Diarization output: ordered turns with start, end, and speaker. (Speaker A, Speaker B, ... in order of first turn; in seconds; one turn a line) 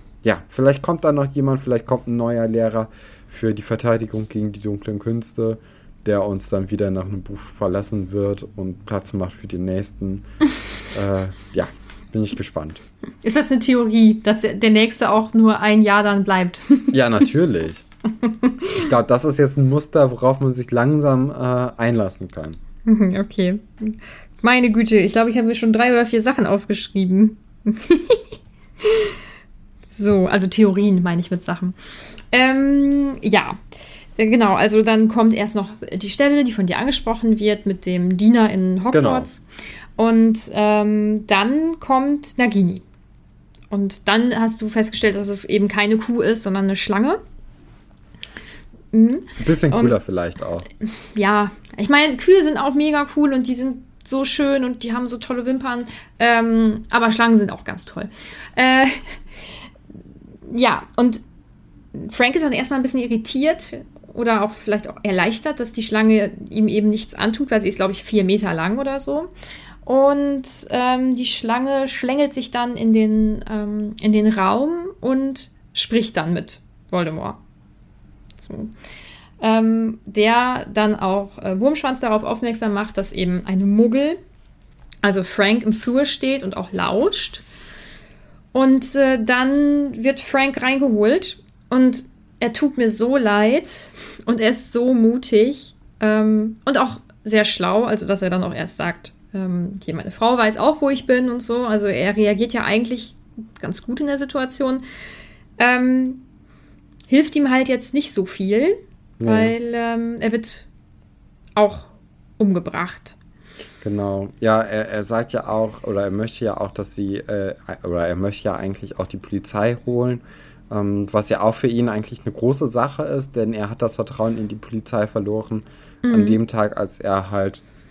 Speaker A: 0.2-10.3
Speaker A: 10.9-12.8
Speaker B: 13.2-16.9
Speaker A: 16.9-17.8
Speaker B: 18.2-18.7
Speaker A: 18.8-22.6
Speaker B: 22.9-28.3
Speaker B: 28.8-29.2
Speaker B: 29.9-31.8
Speaker B: 32.3-33.6
Speaker B: 34.2-39.4
Speaker A: 38.9-39.3
Speaker B: 40.0-42.8
Speaker B: 43.7-47.2
Speaker B: 48.9-50.0
Speaker A: 49.4-50.7
Speaker B: 50.8-59.2
Speaker B: 60.5-61.2
Speaker B: 61.9-69.3
Speaker B: 69.8-77.4
Speaker B: 78.4-78.7
Speaker B: 79.4-84.2
Speaker B: 85.0-87.4
Speaker B: 88.5-104.8
Speaker B: 105.6-106.2
Speaker B: 107.1-110.7
Speaker A: 109.2-109.5
Speaker B: 111.6-113.2
Speaker A: 113.8-127.6
Speaker B: 126.0-126.4